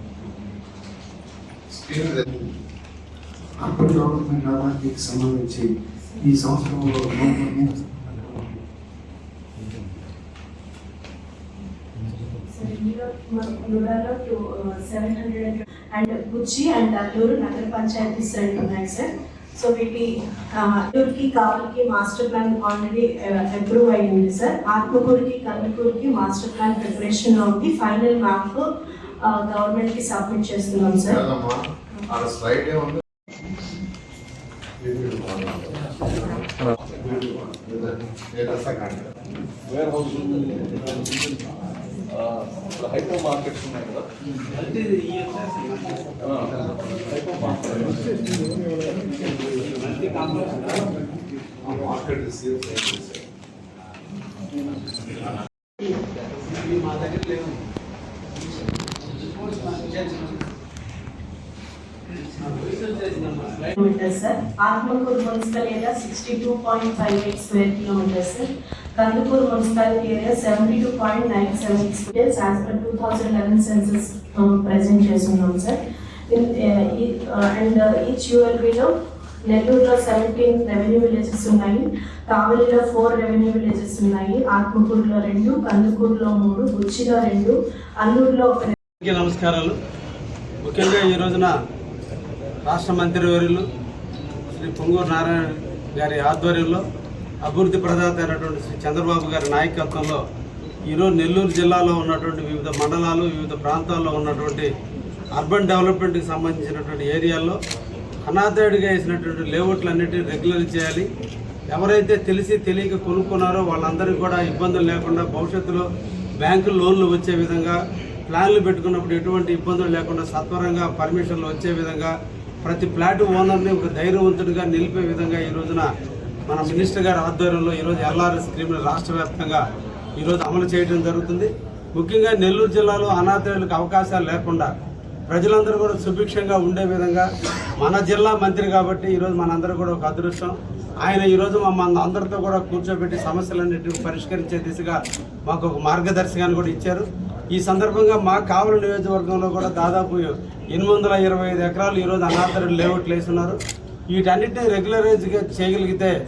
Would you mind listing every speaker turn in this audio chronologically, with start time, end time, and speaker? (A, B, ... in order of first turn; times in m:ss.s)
0:01.7-0:02.5 A
0:03.6-0:08.6 A
0:12.4-0:28.7 B
0:29.2-0:31.2 B
0:31.1-0:33.0 C
0:34.8-0:39.1 C
0:39.7-0:41.1 D
0:42.1-0:44.1 D
0:44.5-0:46.2 E
0:46.2-0:46.5 D
0:47.2-0:48.4 D
0:49.6-0:50.9 E
0:51.6-0:53.2 C
0:56.4-0:57.6 E
0:59.0-1:00.5 E
1:02.3-1:03.8 E
1:03.8-1:18.9 B
1:19.5-1:28.7 B
1:29.0-1:29.8 E
1:30.6-1:31.5 E
1:32.6-1:33.6 E
1:34.5-1:36.8 E
1:37.4-1:40.2 E
1:40.9-1:44.7 E
1:45.3-1:47.6 E
1:48.2-1:51.1 E
1:51.7-1:55.9 E
1:56.4-2:02.1 E
2:02.6-2:05.9 E
2:06.5-2:09.6 E
2:10.2-2:14.7 E
2:15.3-2:17.3 E
2:17.8-2:33.6 E
2:34.1-2:36.1 E